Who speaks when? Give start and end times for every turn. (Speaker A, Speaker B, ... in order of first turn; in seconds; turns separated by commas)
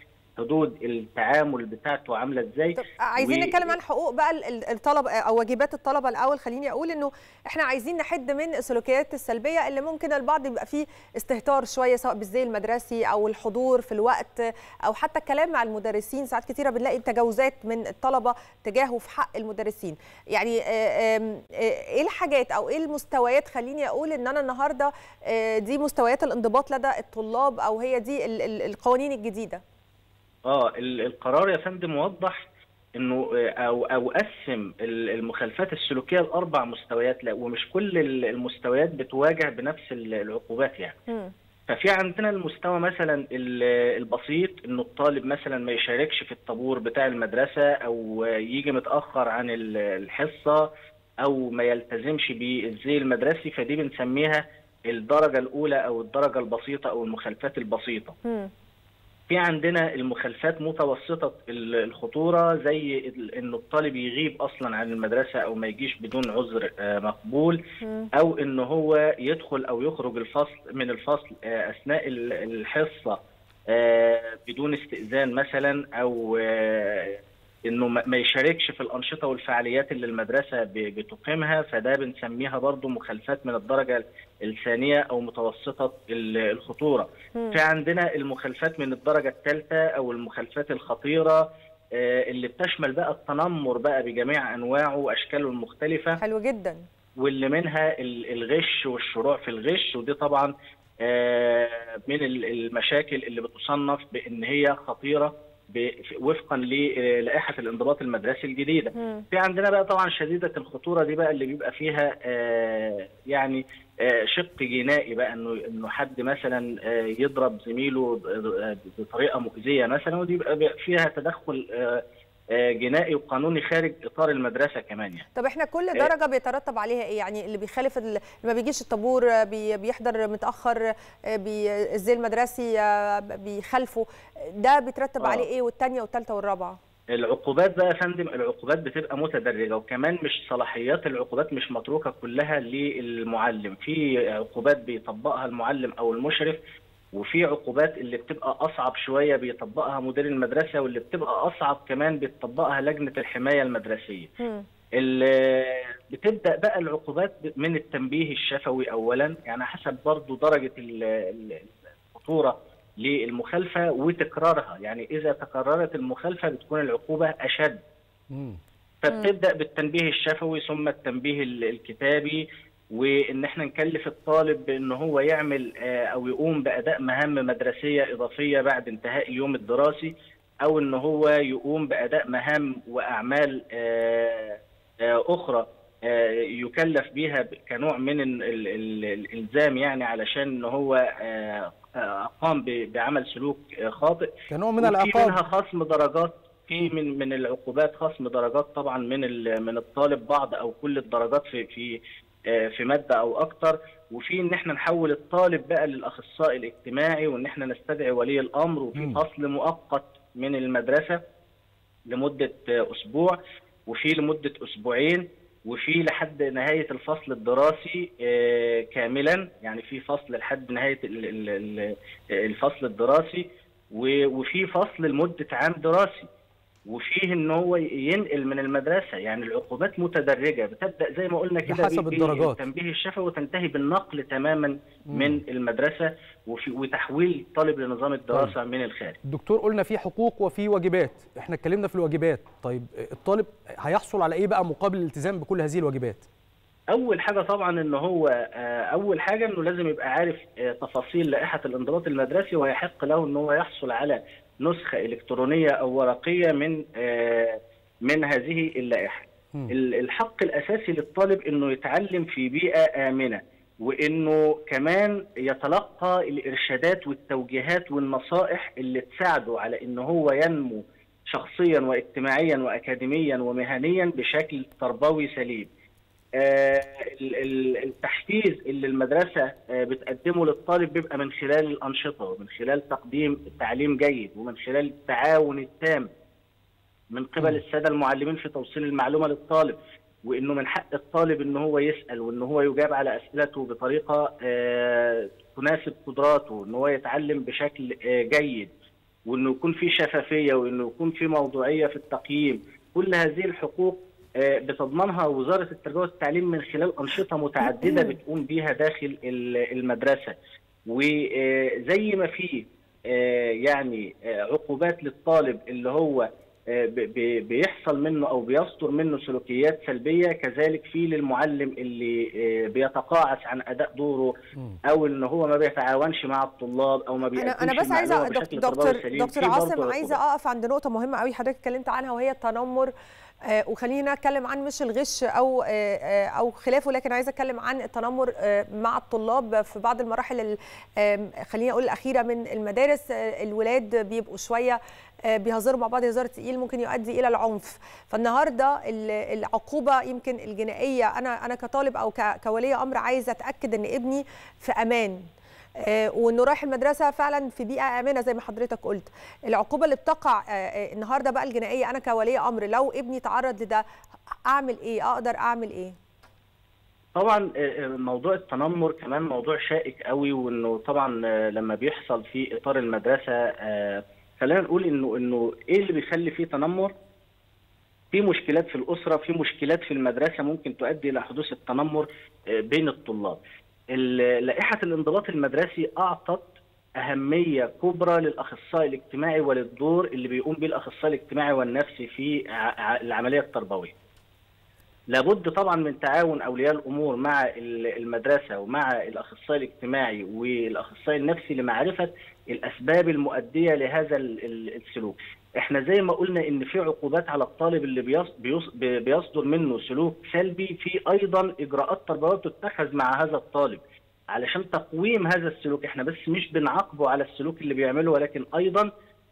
Speaker A: 0.4-3.8, Speaker B: 2.8-29.6, Speaker A: 30.5-32.5, Speaker A: 33.0-41.0, Speaker A: 41.7-50.7, Speaker A: 51.2-58.2, Speaker A: 59.3-67.6, Speaker B: 67.8-68.1, Speaker A: 68.2-73.2, Speaker A: 73.7-91.4, Speaker A: 92.0-96.2, Speaker B: 96.2-96.8, Speaker A: 97.2-100.5, Speaker A: 101.0-122.0, Speaker B: 109.0-109.2, Speaker A: 122.5-125.2, Speaker B: 125.3-130.8, Speaker B: 131.3-136.8, Speaker A: 135.2-135.5, Speaker A: 137.2-146.6, Speaker A: 147.2-154.3, Speaker A: 155.0-167.8, Speaker C: 168.3-168.6, Speaker A: 169.0-180.1, Speaker B: 169.1-169.3, Speaker A: 180.6-202.0, Speaker C: 194.5-195.4, Speaker A: 202.5-211.2, Speaker C: 209.0-209.2, Speaker A: 212.1-226.3, Speaker A: 226.9-239.2, Speaker C: 231.7-232.6, Speaker C: 235.1-235.4, Speaker C: 239.3-246.3, Speaker A: 246.9-275.7, Speaker A: 276.4-286.1, Speaker A: 287.1-298.7, Speaker A: 299.3-310.4, Speaker A: 310.9-324.4, Speaker A: 324.9-330.2, Speaker B: 327.4-332.9, Speaker B: 333.5-344.8, Speaker B: 345.3-355.2, Speaker B: 355.8-363.8, Speaker B: 364.5-366.0, Speaker A: 367.2-376.9, Speaker A: 378.1-382.1, Speaker A: 382.7-383.4, Speaker A: 383.9-386.5, Speaker A: 387.0-393.9, Speaker A: 395.1-413.8, Speaker A: 414.3-418.9